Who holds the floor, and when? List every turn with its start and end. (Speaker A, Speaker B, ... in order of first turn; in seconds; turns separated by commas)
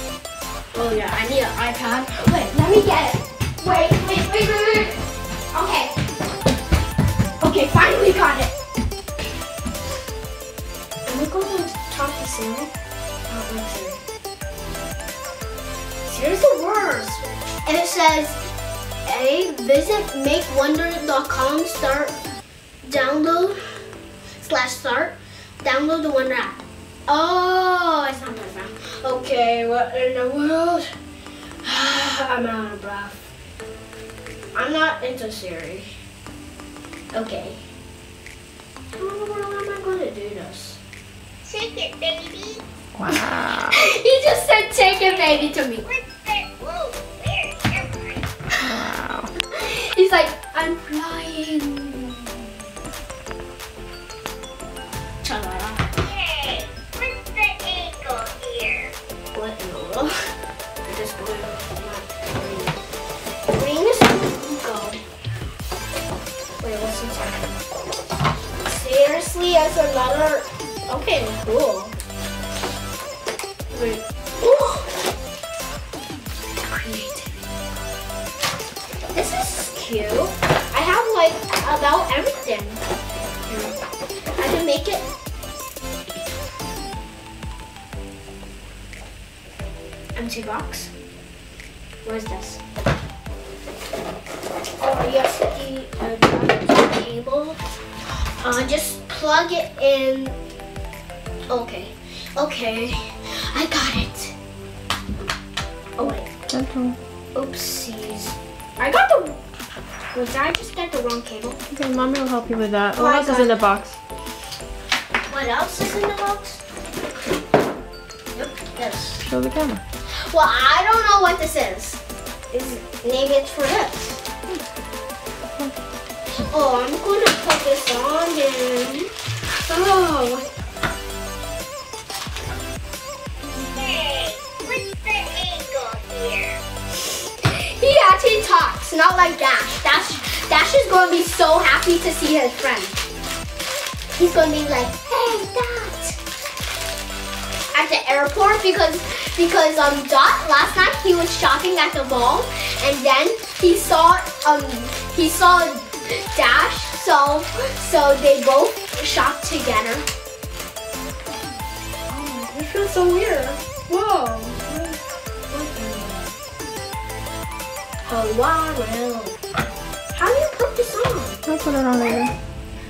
Speaker A: 0.7-6.0, Speaker A: 7.4-8.5, Speaker A: 11.1-12.7, Speaker A: 13.3-14.0, Speaker A: 16.0-18.4, Speaker A: 19.1-22.2, Speaker A: 22.8-23.6, Speaker A: 24.4-30.9, Speaker A: 31.6-33.3, Speaker A: 34.5-35.9, Speaker A: 37.1-37.6, Speaker A: 39.0-40.8, Speaker B: 41.4-42.6, Speaker C: 43.0-43.8, Speaker A: 43.1-45.9, Speaker B: 45.0-48.2, Speaker C: 48.6-49.3, Speaker A: 49.5-52.5, Speaker A: 55.2-56.0, Speaker B: 56.0-58.9, Speaker A: 59.3-60.2, Speaker A: 60.9-62.8, Speaker A: 63.5-65.0, Speaker A: 66.6-67.6, Speaker A: 68.6-72.0, Speaker A: 73.7-75.0, Speaker A: 76.6-77.4, Speaker A: 79.1-82.8, Speaker A: 83.5-83.8, Speaker A: 84.4-85.0, Speaker A: 90.2-90.9, Speaker A: 92.0-92.6, Speaker A: 94.8-97.6, Speaker A: 98.4-100.4, Speaker A: 101.5-104.3, Speaker A: 106.0-106.3, Speaker C: 106.5-107.0, Speaker A: 107.3-109.4, Speaker A: 110.1-111.6, Speaker C: 111.7-114.0, Speaker A: 113.0-113.6, Speaker A: 115.3-116.6, Speaker A: 118.3-119.3, Speaker C: 119.2-119.8, Speaker A: 120.3-122.0, Speaker A: 122.5-124.2, Speaker A: 126.5-130.5, Speaker B: 133.7-136.6, Speaker A: 137.3-143.0, Speaker A: 144.2-146.2, Speaker A: 147.7-160.1, Speaker A: 162.1-165.0, Speaker A: 165.5-166.3, Speaker A: 168.1-169.4, Speaker A: 170.1-171.4, Speaker C: 171.5-172.3